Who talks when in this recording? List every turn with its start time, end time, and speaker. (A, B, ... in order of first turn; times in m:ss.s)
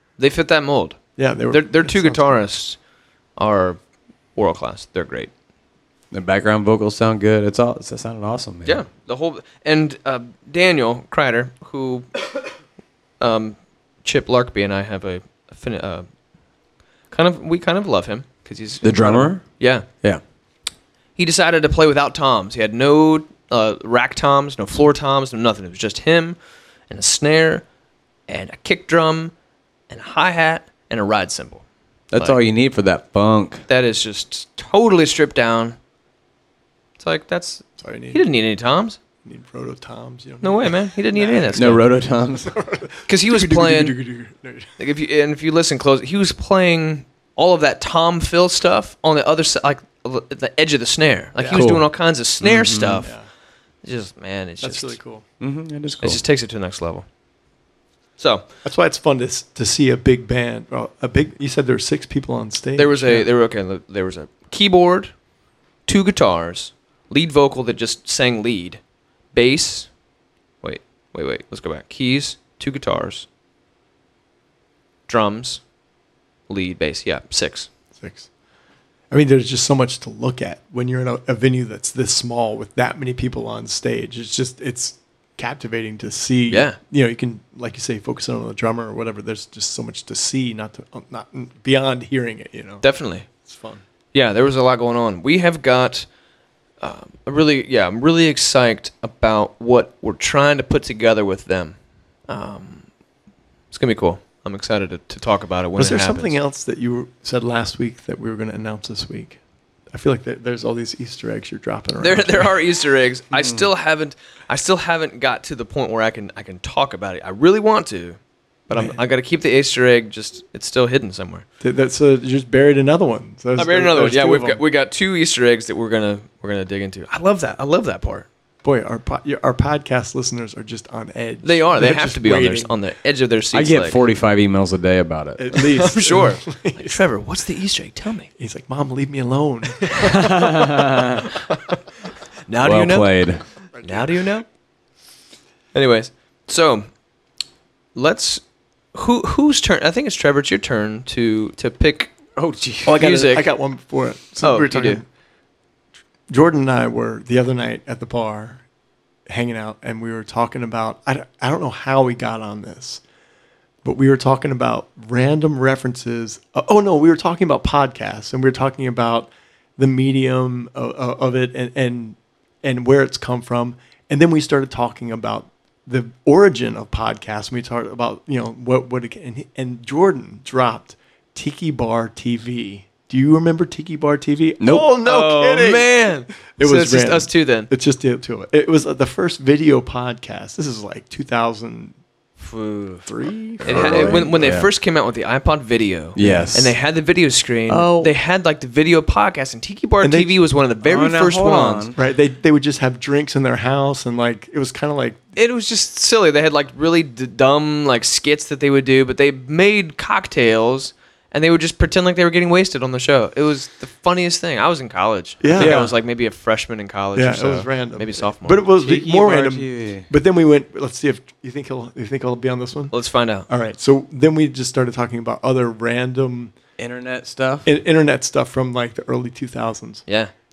0:00.2-0:02.8 A
0:01.2-0:02.4 B
0:03.4-0:03.8 A
0:04.3-0:05.3 A
0:06.1-0:08.8 C
0:08.6-0:12.2 A
0:13.2-0:16.1 A
0:17.1-0:19.9 A
0:18.8-0:19.4 C
0:21.2-0:26.4 A
0:26.9-0:27.6 A
0:28.3-0:29.3 A
0:29.9-0:31.6 A
0:32.1-0:33.6 C
0:33.7-0:35.8 A
0:37.0-0:39.0 A
0:37.8-0:38.2 B
0:39.2-0:41.9 B
0:40.4-0:41.8 A
0:41.5-0:42.6 C
0:42.4-0:44.7 B
0:43.1-0:44.0 A
0:44.8-0:53.1 A
0:51.4-0:51.7 B
0:51.5-0:53.0 C
0:53.8-0:55.0 A
0:54.6-0:55.2 B
0:55.4-0:56.2 C
0:56.0-0:57.0 A
0:58.2-0:58.5 A
0:58.6-1:03.2 B
1:02.8-1:05.1 A
1:05.8-1:08.8 A
1:09.3-1:09.9 A
1:10.6-1:13.3 A
1:15.1-1:15.6 A
1:16.5-1:17.7 A
1:17.9-1:18.3 B
1:19.1-1:33.8 B
1:26.5-1:26.8 A
1:32.8-1:33.3 A
1:34.1-1:36.1 A
1:36.8-1:42.9 A
1:43.7-1:46.4 A
1:45.8-1:52.5 B
1:52.0-2:01.4 A
1:58.7-1:59.0 B
2:01.6-2:04.6 B
2:03.6-2:08.3 A
2:08.6-2:12.7 B
2:11.4-2:14.0 A
2:13.5-2:15.6 C
2:15.4-2:16.9 B
2:15.6-2:18.3 A
2:18.4-2:20.4 B
2:20.3-2:21.2 C
2:22.5-2:23.2 A
2:22.6-2:23.4 C
2:23.8-2:24.2 B
2:23.8-2:24.4 A
2:25.7-2:26.9 A
2:27.9-2:32.2 A
2:32.4-2:32.9 C
2:32.8-2:33.5 A
2:32.9-2:35.0 B
2:34.4-2:35.0 A
2:36.3-2:38.6 B
2:39.3-2:43.0 B
2:43.8-3:11.9 B
3:04.6-3:04.9 C
3:05.0-3:07.7 A
3:12.4-3:13.1 A
3:13.0-3:14.6 B
3:13.6-3:21.9 A
3:13.6-3:14.7 C
3:16.2-3:16.7 C
3:16.2-3:16.6 B
3:17.7-3:18.1 C
3:20.0-3:20.4 B
3:20.8-3:22.0 C
3:21.9-3:25.2 B
3:25.3-3:38.6 A
3:35.4-3:35.9 B
3:35.6-3:35.9 C
3:37.2-3:42.9 B
3:38.8-3:40.1 C
3:42.9-3:43.5 A
3:43.5-3:46.5 B
3:46.8-3:47.7 C
3:47.6-3:50.0 B
3:50.1-3:50.3 A